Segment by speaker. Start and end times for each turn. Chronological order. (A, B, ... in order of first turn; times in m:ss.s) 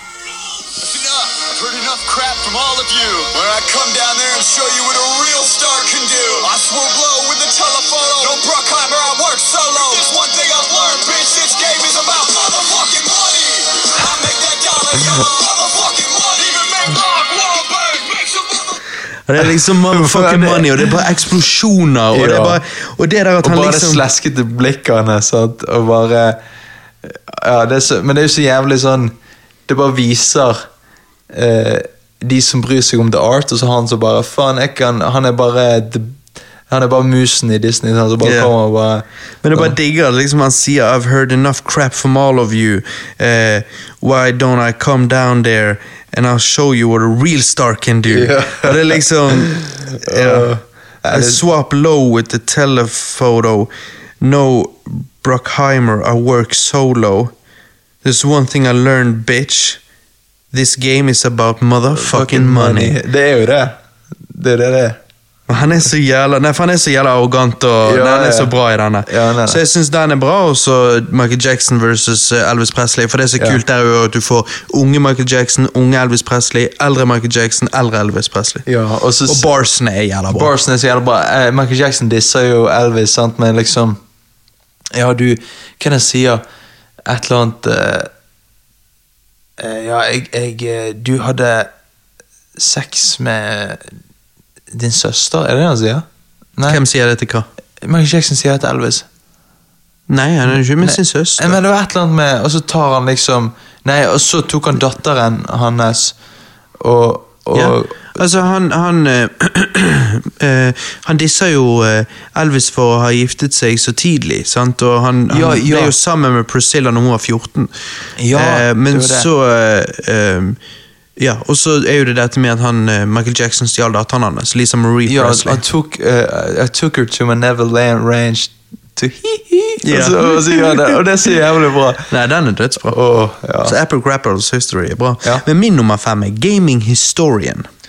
0:00.7-0:18.8 A
0:19.3-0:24.0 B
0:19.4-0:21.0 C
0:22.1-0:22.6 C
0:23.4-0:26.4 C
0:27.0-0:29.1 C
0:29.7-0:30.6 C
0:31.3-0:36.2 C
0:36.7-0:39.8 C
0:38.2-0:38.5 B
0:39.4-0:50.5 B
0:48.1-0:51.4 C
0:51.1-0:57.3 B
0:58.0-0:59.8 B
1:00.5-1:03.0 B
1:02.0-1:03.8 C
1:04.3-1:05.0 C
1:05.5-1:18.7 B
1:07.8-1:09.6 C
1:18.7-1:19.5 C
1:19.3-1:20.5 B
1:20.3-1:24.0 C
1:24.9-1:26.4 C
1:27.1-1:28.1 C
1:29.6-1:31.7 C
1:32.6-1:33.8 C
1:34.7-1:36.1 C
1:36.6-1:36.8 C
1:36.7-1:37.5 B
1:37.8-1:39.1 C
1:40.1-1:41.6 B
1:40.5-1:46.2 C
1:46.8-1:48.2 C
1:47.5-1:57.7 B
1:55.3-1:56.0 C
1:58.2-1:59.3 C
1:58.3-2:00.6 B
2:01.2-2:05.6 B
2:05.1-2:12.1 C
2:09.8-2:11.0 B
2:12.1-2:13.0 B
2:12.8-2:13.8 C
2:13.6-2:17.7 B